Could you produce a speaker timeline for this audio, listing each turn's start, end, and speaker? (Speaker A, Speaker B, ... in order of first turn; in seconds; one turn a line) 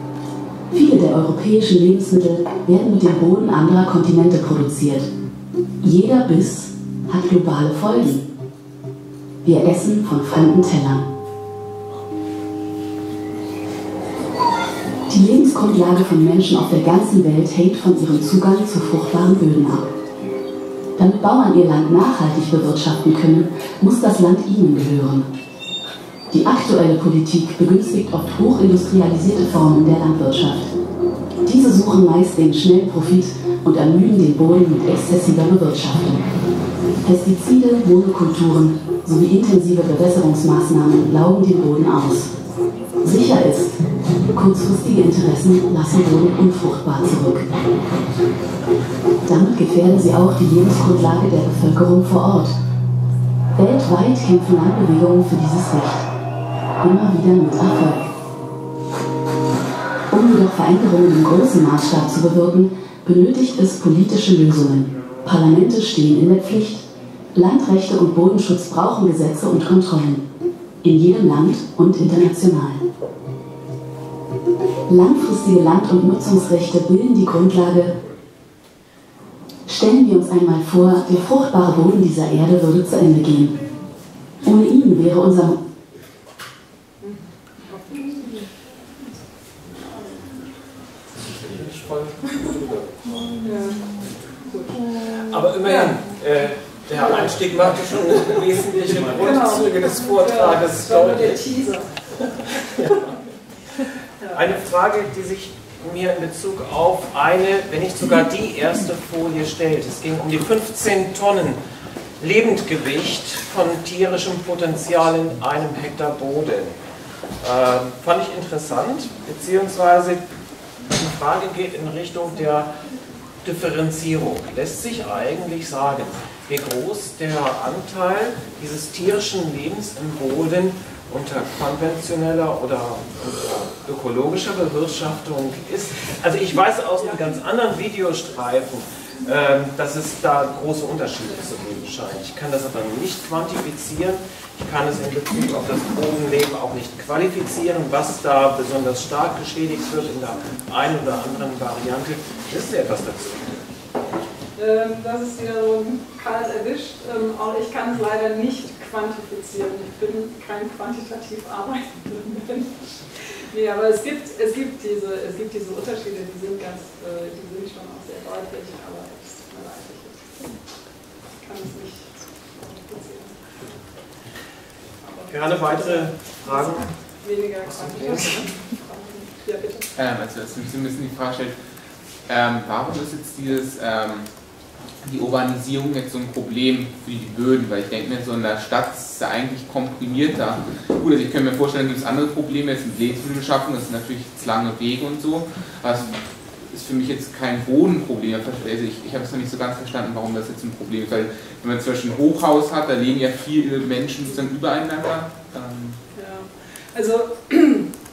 Speaker A: 0.7-5.1
Speaker A: 5.8-8.3
Speaker A: 9.4-11.1
Speaker A: 15.1-19.9
Speaker A: 21.0-25.3
Speaker A: 26.3-30.7
Speaker A: 31.4-36.2
Speaker A: 37.0-42.3
Speaker A: 43.0-43.8
Speaker A: 44.3-47.5
Speaker A: 49.2-52.6
Speaker A: 53.5-56.1
Speaker A: 56.8-58.1
Speaker A: 60.1-70.2
Speaker A: 70.8-72.9
Speaker A: 74.9-78.0
Speaker A: 79.7-83.6
Speaker A: 84.4-85.6
Speaker B: 87.0-88.5
Speaker B: 89.8-90.3
Speaker C: 91.2-93.3
Speaker B: 93.4-93.9
Speaker B: 94.5-94.8
Speaker C: 95.1-101.5
Speaker B: 95.6-96.0
Speaker B: 99.2-101.9
Speaker C: 102.8-103.1
Speaker C: 103.8-111.6
Speaker B: 104.2-104.5
Speaker C: 112.2-116.7
Speaker C: 117.4-120.2
Speaker C: 120.9-122.7
Speaker C: 123.4-153.6
Speaker B: 154.6-170.3
Speaker B: 171.4-173.4
Speaker B: 175.0-179.9
Speaker C: 175.3-176.9
Speaker C: 177.7-178.4
Speaker D: 180.0-181.6
Speaker D: 182.3-184.3
Speaker D: 185.0-206.0
Speaker B: 206.2-207.9